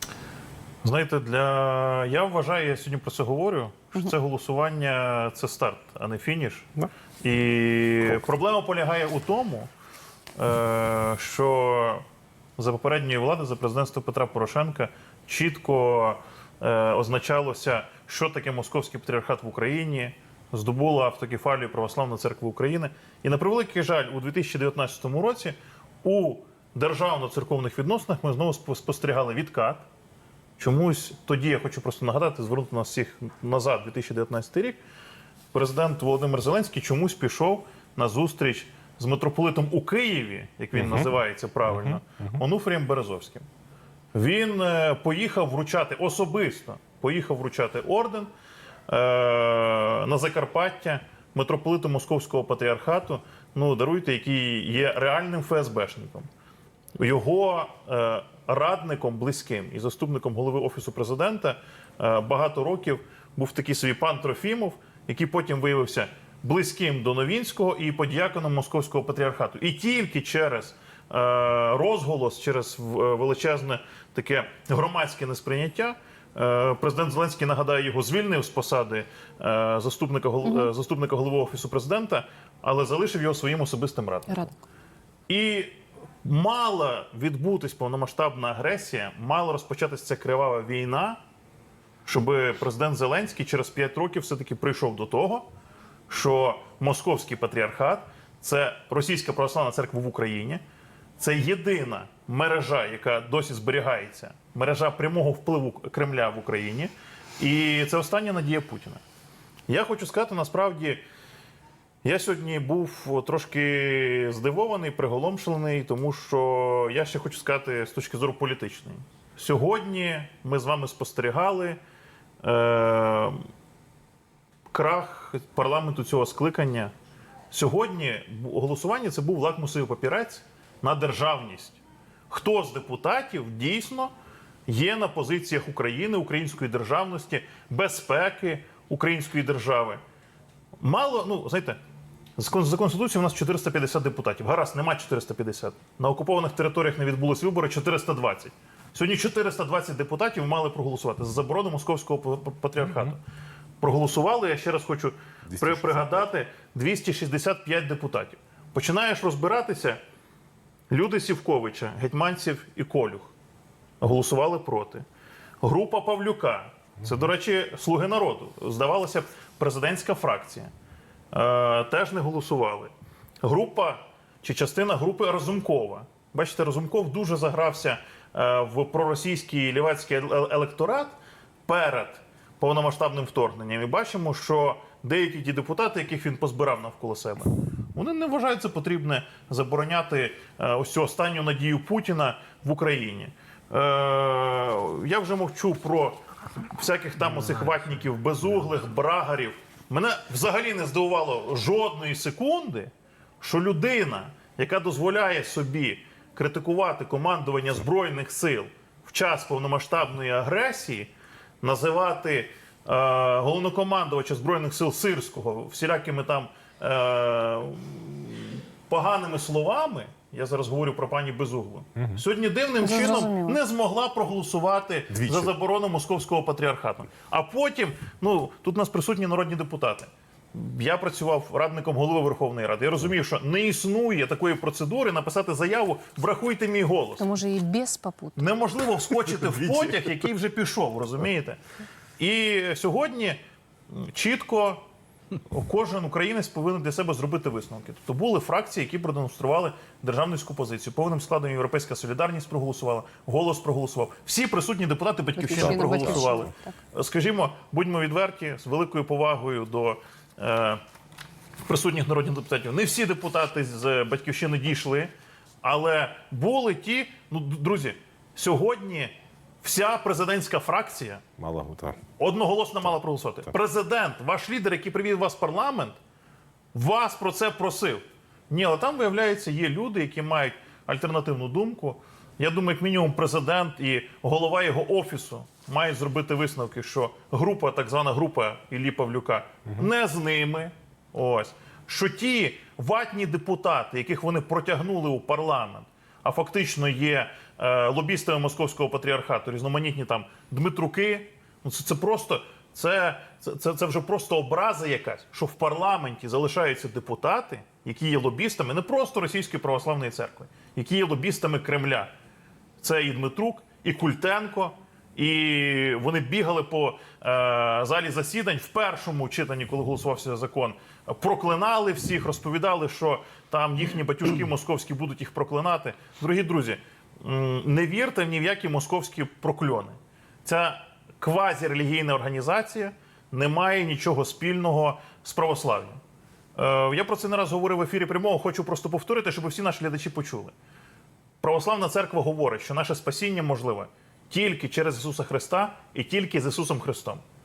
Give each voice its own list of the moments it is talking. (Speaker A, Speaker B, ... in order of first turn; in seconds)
Speaker A: 0.8-9.7, 10.4-12.1, 12.6-29.9, 30.6-34.8, 35.5-43.5, 44.1-48.3, 48.9-56.3, 57.0-84.5, 85.3-91.2, 92.1-95.5, 96.1-100.6, 101.2-109.0, 109.7-111.0, 112.0-121.8, 122.4-123.4, 124.7-126.9, 127.5-134.1, 134.7-140.0, 140.8-141.8, 142.4-153.2, 153.8-160.0, 160.9-163.3, 164.0-165.0, 165.6-170.7, 171.3-196.2, 196.7-211.1, 211.6-237.3, 238.4-241.6, 242.2-243.4, 243.9-244.8, 245.5-260.8, 261.6-265.1, 265.6-271.3, 272.2-276.0, 276.7-312.1, 312.8-336.0, 336.6-340.5, 341.4-347.2
Speaker B: 84.3-84.6, 222.8-223.6, 237.2-238.4, 255.4-256.7
Speaker C: 155.5-156.2, 225.2-225.5, 255.6-256.4, 271.4-272.0